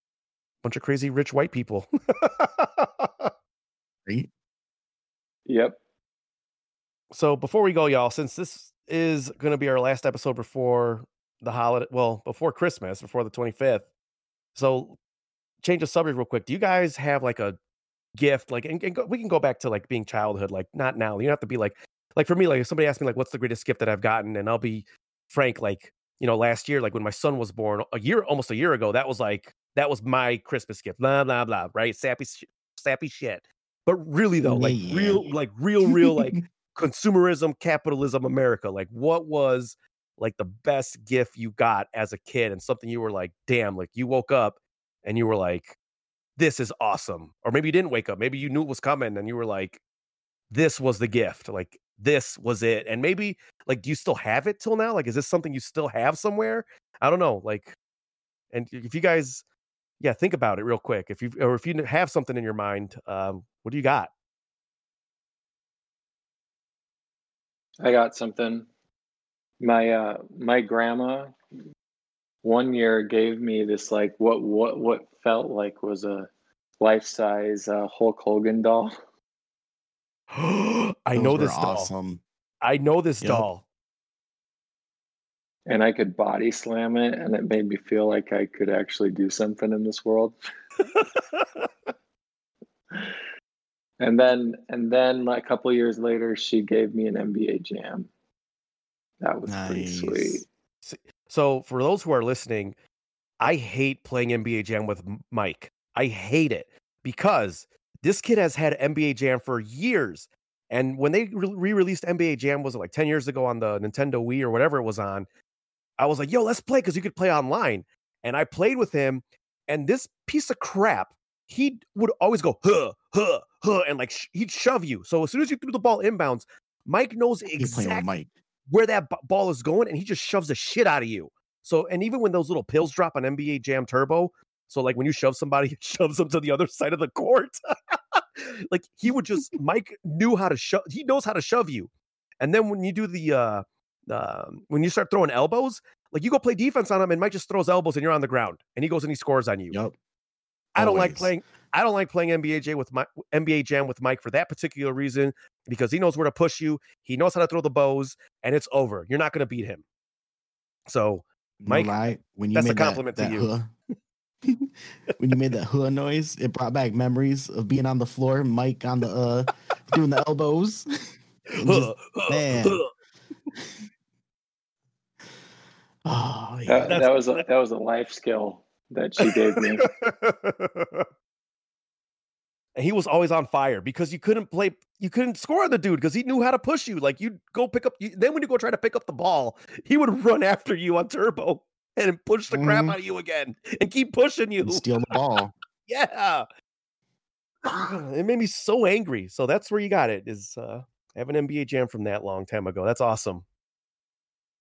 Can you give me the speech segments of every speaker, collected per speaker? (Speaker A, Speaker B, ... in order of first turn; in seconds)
Speaker A: 0.6-3.3, 7.1-13.9, 14.5-15.0, 15.6-17.6, 18.2-45.8, 46.4-49.8, 50.5-57.8, 58.5-59.4, 60.0-64.1, 80.3-81.9, 82.6-83.6, 90.8-91.7, 100.8-102.8, 103.4-115.3, 116.0-128.0, 128.7-137.6, 138.1-149.8, 150.7-159.8, 160.9-161.9, 162.5-163.5, 171.5-172.9, 176.9-177.4, 179.2-181.1, 182.7-195.1, 195.9-196.4, 197.6-203.4
Speaker B: 5.5-5.8, 67.8-68.7, 69.6-71.3, 72.4-76.3, 76.8-78.9, 85.7-90.3, 94.0-98.1, 99.2-100.5, 176.7-179.8
Speaker C: 34.4-35.3, 35.9-36.4, 81.1-82.2, 83.2-83.5, 99.5-100.5, 127.6-128.3, 150.8-151.3, 161.6-163.7, 164.4-170.8, 171.6-172.8, 176.0-177.0, 192.5-193.0, 194.6-195.5